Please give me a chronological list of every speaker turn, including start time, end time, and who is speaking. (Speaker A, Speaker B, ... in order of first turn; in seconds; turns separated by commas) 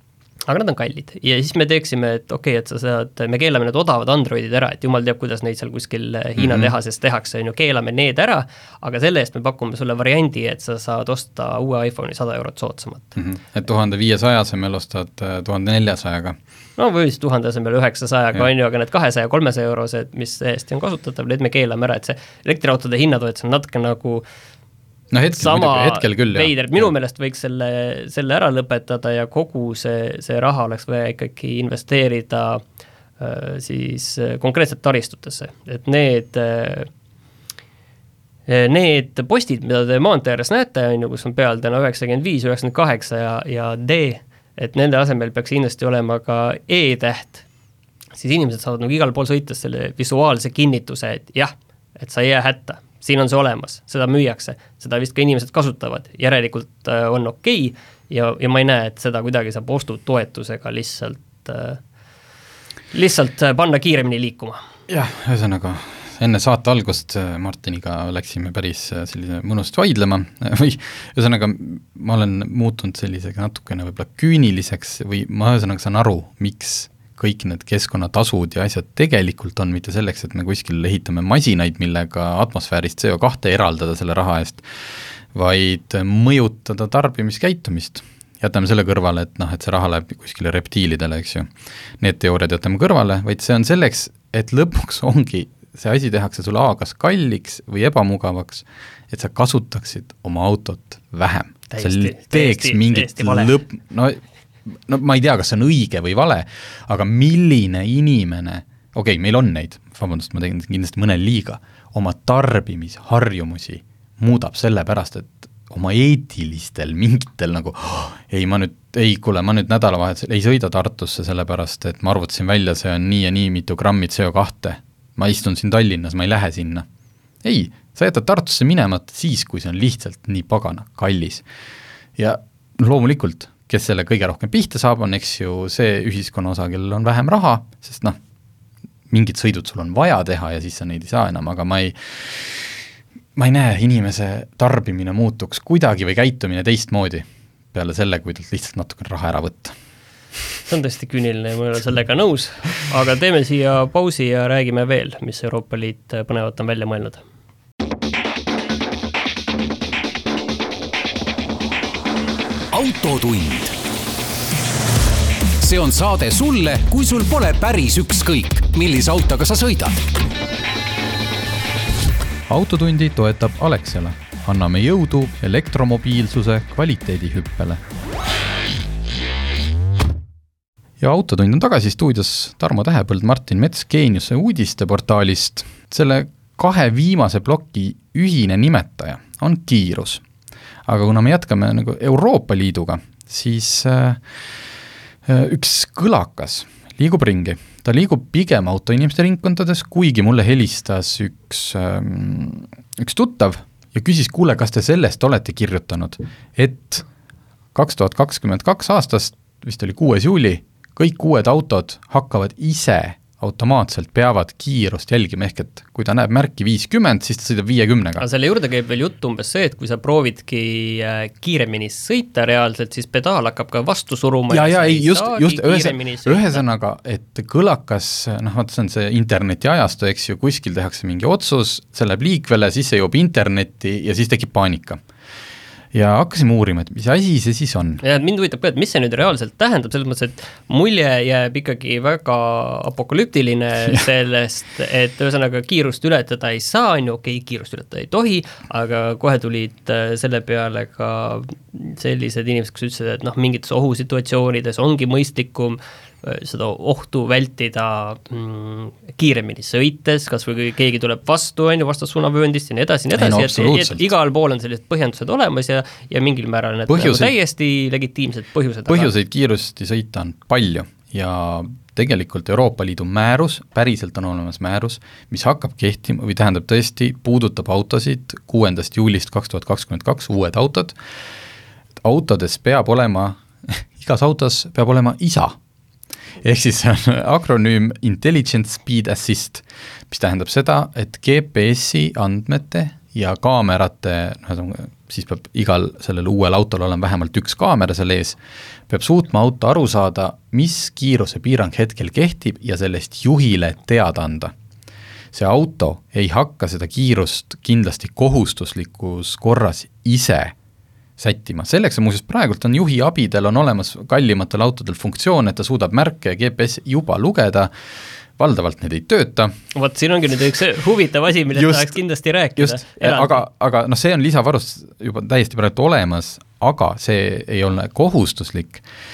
Speaker A: 0.5-13.2, Speaker B: 6.4-6.7, Speaker B: 13.2-16.4, Speaker A: 16.8-24.2, Speaker B: 25.1-26.9, Speaker A: 25.4-32.6, Speaker A: 33.2-36.9, Speaker A: 38.5-47.4, Speaker A: 48.1-61.8, Speaker A: 62.9-64.6, Speaker B: 64.9-84.8, Speaker B: 85.3-91.5, Speaker B: 92.0-126.8, Speaker A: 101.7-103.6, Speaker B: 127.4-131.4, Speaker B: 132.2-138.2, Speaker B: 139.1-142.7, Speaker B: 143.3-149.7, Speaker A: 150.7-157.2, Speaker C: 162.7-163.7, Speaker C: 165.6-170.0, Speaker B: 172.5-177.8, Speaker B: 181.0-190.2, Speaker B: 190.8-194.2, Speaker B: 195.2-207.1, Speaker B: 207.7-218.2, Speaker A: 218.2-226.6, Speaker B: 224.5-235.0, Speaker B: 235.9-238.0, Speaker A: 238.0-269.1, Speaker B: 263.1-264.1, Speaker B: 266.9-267.3, Speaker B: 268.9-280.9, Speaker B: 282.0-285.5, Speaker B: 286.4-298.4, Speaker B: 298.9-304.5, Speaker B: 305.3-310.5, Speaker B: 311.2-317.7, Speaker B: 318.4-319.5, Speaker A: 319.7-323.4, Speaker B: 321.5-322.0, Speaker B: 322.6-328.8